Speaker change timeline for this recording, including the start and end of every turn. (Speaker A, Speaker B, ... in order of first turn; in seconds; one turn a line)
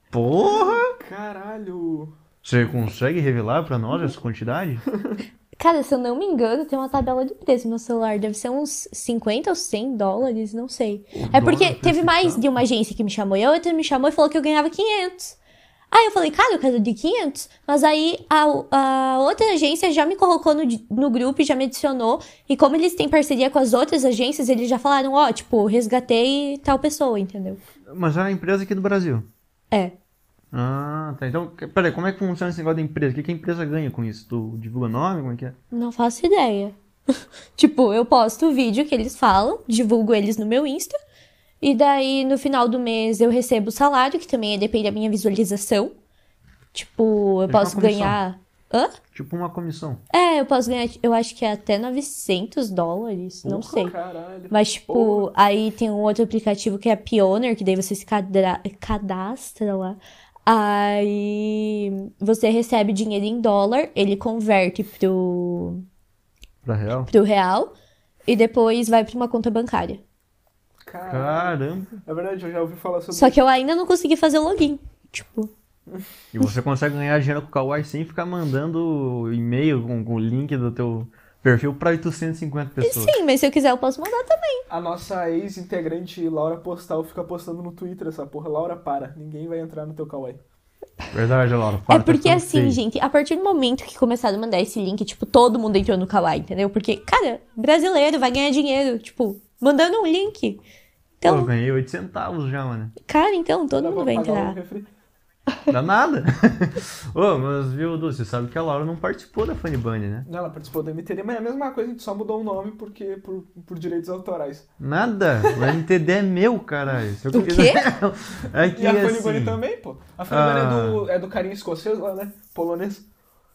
Speaker A: 0.1-1.0
Speaker B: 0.4-2.1
Speaker A: 2.4-4.8
Speaker C: 5.6-15.4
Speaker A: 11.1-12.5
Speaker C: 15.9-27.6
Speaker A: 27.9-29.3
Speaker A: 30.5-35.6
Speaker C: 35.7-36.8
Speaker C: 37.6-41.0
Speaker C: 41.6-45.9
Speaker C: 46.7-49.0
Speaker A: 47.5-48.2
Speaker A: 49.1-50.0
Speaker C: 50.1-54.0
Speaker B: 53.5-55.3
Speaker C: 54.5-65.8
Speaker A: 66.6-67.1
Speaker C: 67.1-67.7
Speaker C: 68.3-70.0
Speaker B: 70.8-73.4
Speaker A: 71.1-72.0
Speaker C: 73.1-75.5
Speaker A: 76.3-83.2
Speaker C: 82.8-84.6
Speaker B: 84.7-90.4
Speaker A: 91.1-92.8
Speaker C: 91.9-100.6
Speaker C: 101.2-101.5
Speaker A: 101.2-102.9
Speaker C: 103.1-104.6
Speaker B: 103.7-104.9
Speaker A: 105.7-110.3
Speaker B: 110.3-114.7
Speaker A: 114.8-119.6
Speaker B: 115.5-115.8
Speaker C: 117.3-117.8
Speaker B: 118.7-123.0
Speaker A: 120.3-121.1